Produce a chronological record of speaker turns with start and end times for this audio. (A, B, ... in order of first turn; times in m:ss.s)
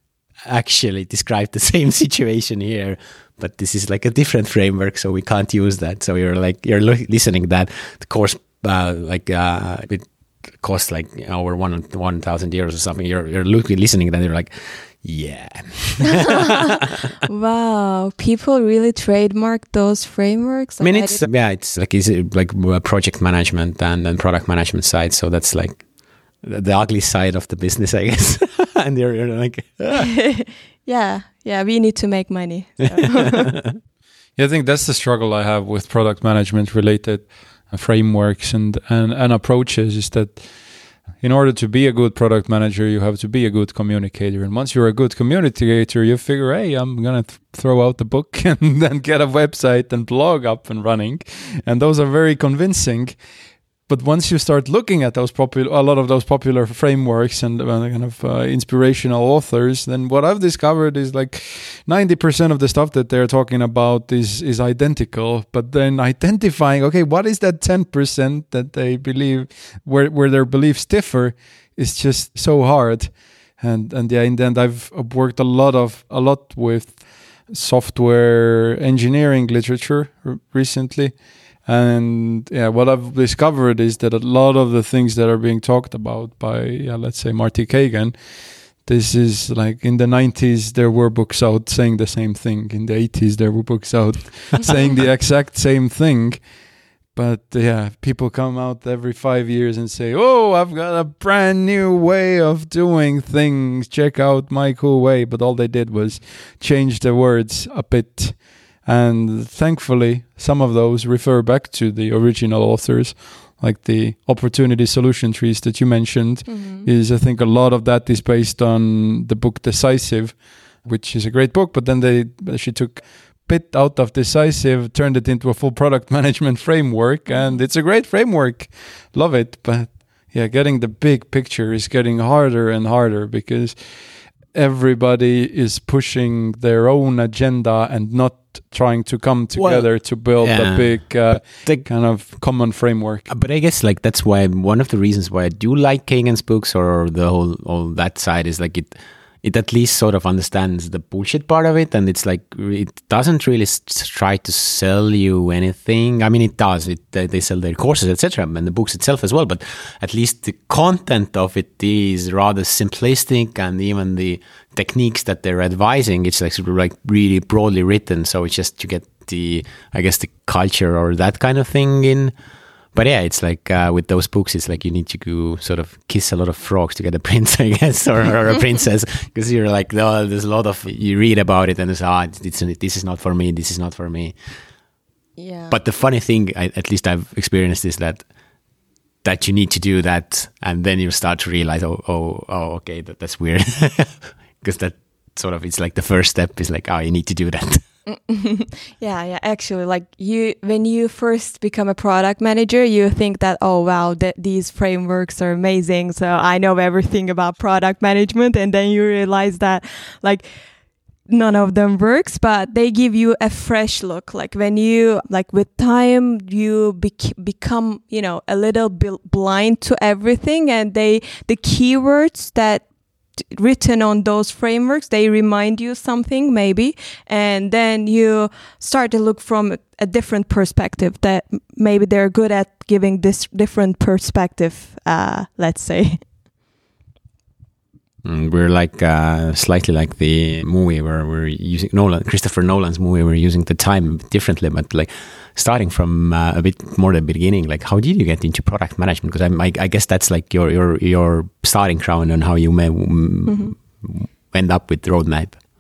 0:00.4-0:17.1 A
0:16.2-0:21.2 B
0:20.8-0:25.9 A
0:26.4-0:30.1 A
0:30.0-0:33.6 B
0:33.0-0:33.7 A
0:34.4-0:40.5 C
0:41.2-0:53.2 C
0:53.9-1:36.5 C
1:37.1-2:23.3 C
1:56.5-1:56.9 B
2:07.3-2:07.6 B
2:19.6-2:21.9 A
2:23.3-2:52.3 A
2:52.9-3:04.3 A
3:05.4-3:05.8 B
3:05.7-3:08.3 A
3:09.2-3:17.8 A
3:18.1-3:30.4 B
3:31.3-3:42.8 B
3:43.5-3:56.2 B
3:58.2-4:15.6 A
4:13.5-4:13.7 B